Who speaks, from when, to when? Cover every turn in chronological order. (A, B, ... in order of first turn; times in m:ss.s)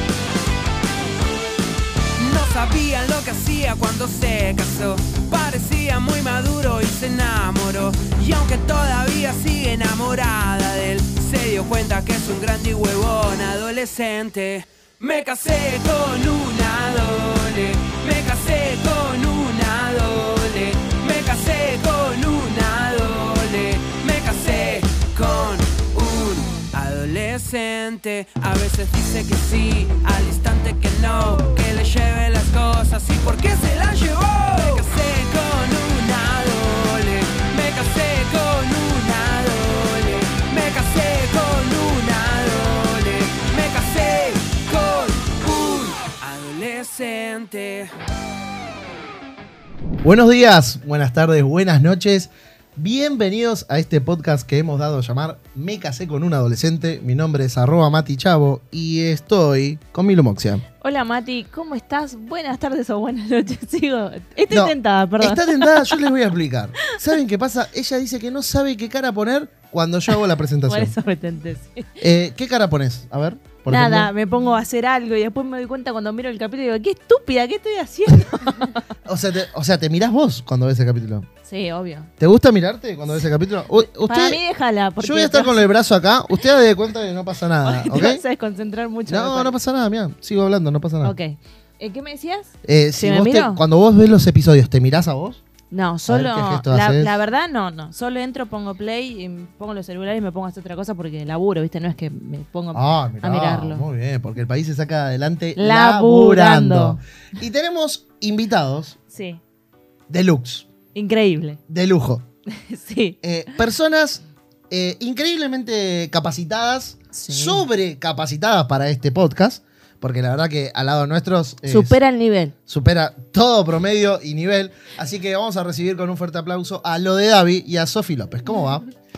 0:02.2-0:47.9 A
0:50.0-1:00.6 B
1:00.8-1:06.0 C
1:04.5-1:10.9 B
1:10.6-1:11.8 C
1:12.0-1:14.1 B
1:13.7-1:18.8 C
1:19.0-1:21.3 B
1:21.4-1:22.1 C
1:22.2-1:24.4 B
1:23.8-1:25.6 C
1:25.0-1:28.2 B
1:27.6-1:29.5 C
1:29.1-1:31.1 B
1:31.0-1:33.6 C
1:32.6-1:35.4 B
1:35.7-1:43.8 C
1:36.1-1:37.1 B
1:42.7-1:49.0 B
1:45.6-1:47.0 C
1:49.1-1:49.4 C
1:50.1-1:50.7 B
1:50.9-1:51.6 C
1:51.7-1:52.2 B
1:52.5-1:53.2 C
1:53.2-2:02.0 B
1:57.1-1:57.6 C
2:01.6-2:02.5 C
2:02.7-2:08.8 B